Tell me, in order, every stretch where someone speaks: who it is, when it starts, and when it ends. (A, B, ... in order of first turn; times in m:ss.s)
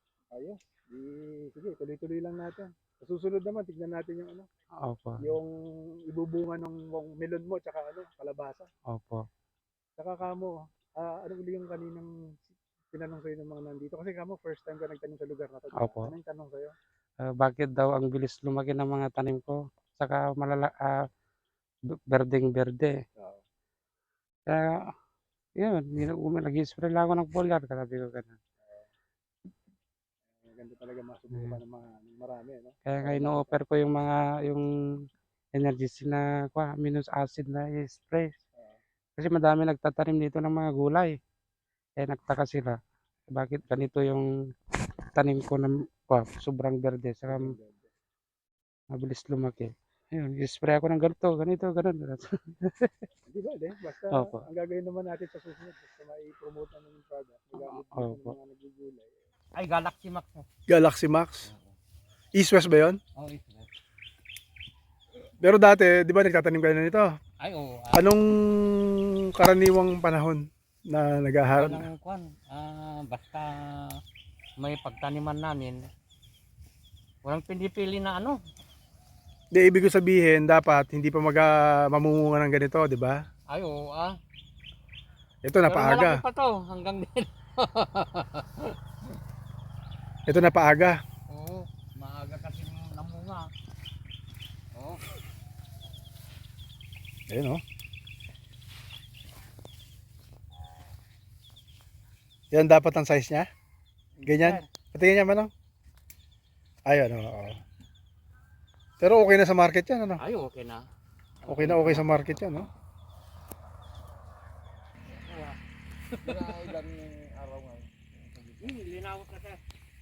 0:00.3-0:04.5 A
0:04.8-0:05.2 B
0:05.2-0:08.7 A
0:08.9-0:09.2 B
0:10.0-0:16.7 A
0:15.8-0:16.1 B
0:17.4-0:21.0 B
0:22.1-0:22.9 B
0:24.5-0:24.7 B
0:25.6-0:28.4 B
0:30.4-0:33.6 A
0:32.9-0:34.6 B
0:35.6-0:38.4 B
0:39.2-0:41.2 B
0:42.0-0:42.8 B
0:43.4-0:44.3 B
0:45.2-0:47.4 B
0:47.3-0:47.9 A
0:48.9-0:53.1 B
0:53.3-0:59.1 A
0:54.1-0:54.4 B
0:57.6-0:58.4 B
0:59.6-1:00.5 C
1:00.7-1:01.5 A
1:02.4-1:03.0 A
1:03.2-1:03.7 C
1:05.4-1:07.1 A
1:07.4-1:08.1 C
1:08.0-1:11.9 A
1:11.5-1:14.0 C
1:14.6-1:15.9 C
1:17.2-1:18.4 C
1:19.5-1:23.2 A
1:23.5-1:24.2 C
1:25.4-1:26.2 A
1:25.7-1:28.8 C
1:30.3-1:31.0 A
1:31.3-1:33.5 C
1:34.7-1:35.0 C
1:37.3-1:37.6 A
1:42.5-1:43.5 A
1:44.2-1:44.7 C
1:44.2-1:45.5 A
1:46.9-1:47.6 A
1:49.0-1:50.2 A
1:50.2-1:50.9 C
1:51.5-1:52.4 C
1:51.5-1:52.7 A
1:55.1-1:55.6 C
1:56.2-1:58.8 D
1:58.6-1:59.6 C